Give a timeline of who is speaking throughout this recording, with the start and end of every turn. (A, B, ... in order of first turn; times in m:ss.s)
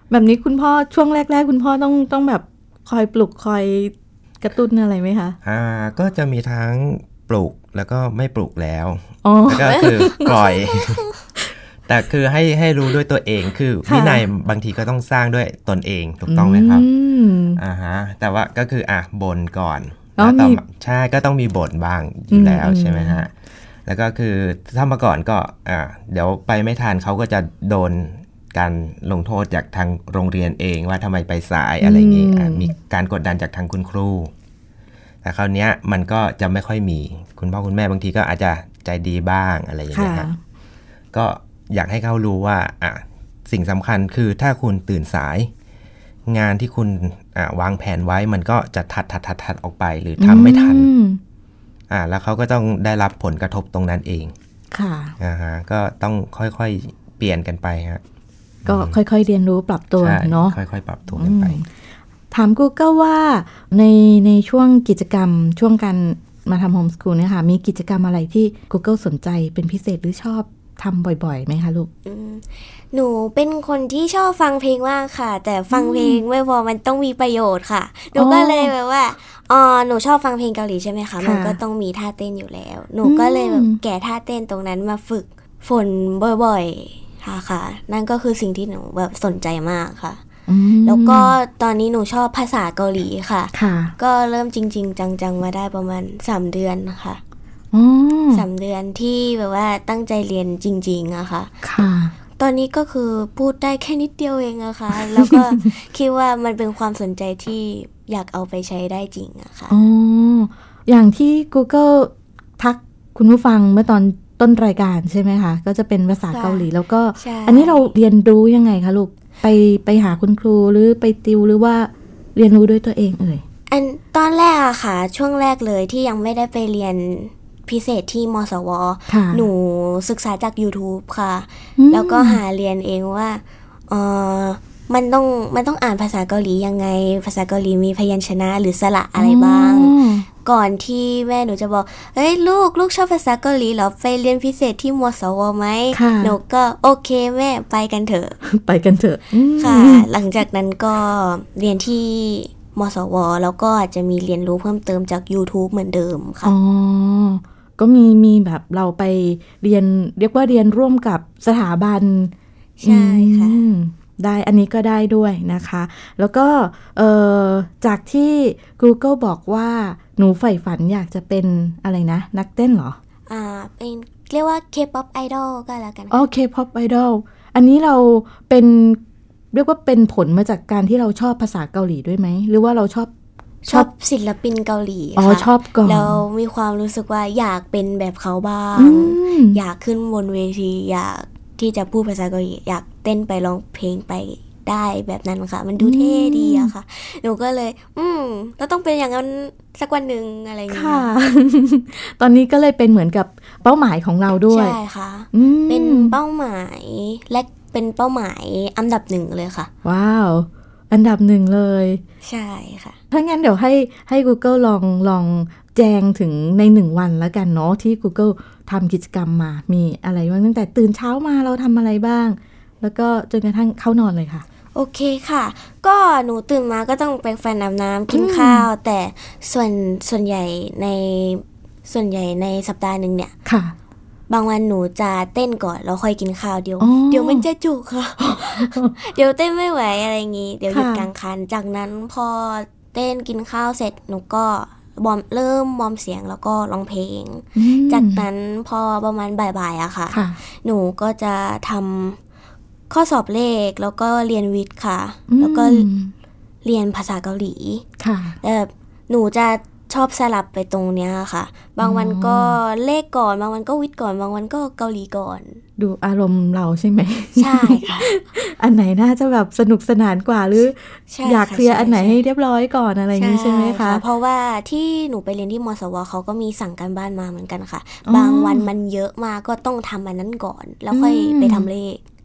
0:00.1-0:05.4 A
0:05.4-0:11.1 B
0:09.2-0:10.3 A
0:10.0-0:11.1 C
0:11.9-0:16.9 B
0:13.8-0:14.3 A
0:16.3-0:17.6 A
0:17.6-0:23.3 B
0:20.2-0:20.6 A
0:22.3-0:23.2 A
0:23.9-0:34.3 B
0:31.8-0:32.7 A
0:35.2-0:40.3 B
0:39.9-0:40.4 A
0:41.1-0:45.5 B
0:46.3-0:50.9 B
0:50.2-0:51.2 A
0:51.9-0:54.3 B
0:54.7-0:55.2 A
0:55.2-0:58.0 B
0:58.6-0:59.0 B
0:58.6-1:00.6 A
1:00.0-1:01.6 B
1:01.2-1:01.7 A
1:02.3-1:11.9 A
1:12.0-1:30.2 C
1:15.7-1:16.2 A
1:18.2-1:18.7 A
1:21.2-1:21.6 A
1:23.0-1:23.8 A
1:30.5-1:31.3 A
1:30.8-1:37.2 C
1:33.5-1:33.9 A
1:37.7-1:38.4 A
1:38.3-1:41.6 C
1:41.6-1:42.1 A
1:42.4-1:49.8 C
1:45.2-1:45.4 A
1:49.7-2:03.4 A
1:56.3-1:57.9 C
2:03.7-2:28.4 C
2:09.1-2:09.5 A
2:11.8-2:12.4 A
2:19.2-2:20.3 A
2:25.9-2:26.4 A
2:28.4-2:30.1 A
2:29.6-2:36.5 C
2:36.4-2:42.3 A
2:42.8-2:43.6 C
2:42.8-2:53.0 A
2:53.3-2:56.2 C
2:56.1-2:59.0 A
2:59.5-3:03.1 A
3:03.6-3:21.1 C
3:05.2-3:06.2 A
3:08.8-3:09.6 A
3:15.8-3:16.7 A
3:20.7-3:24.8 A
3:24.5-3:29.7 C
3:25.3-3:26.2 A
3:29.8-3:32.0 A
3:32.2-3:33.0 C
3:33.1-3:44.4 A
3:44.8-3:53.3 C
3:48.1-3:48.7 A
3:53.5-3:53.7 A
3:54.3-4:12.2 C
3:56.8-3:57.5 A
3:58.2-3:58.9 A
4:00.7-4:01.1 A
4:07.6-4:08.2 A
4:10.1-4:10.4 A
4:12.9-4:15.9 C
4:15.3-4:16.1 A
4:16.6-4:17.9 C
4:18.0-4:18.4 A
4:18.4-4:25.6 C
4:21.8-4:22.6 A
4:25.8-4:34.0 A
4:27.4-4:28.1 C
4:31.1-4:32.2 C
4:33.2-4:42.0 C
4:38.1-4:38.7 A
4:40.9-4:41.7 A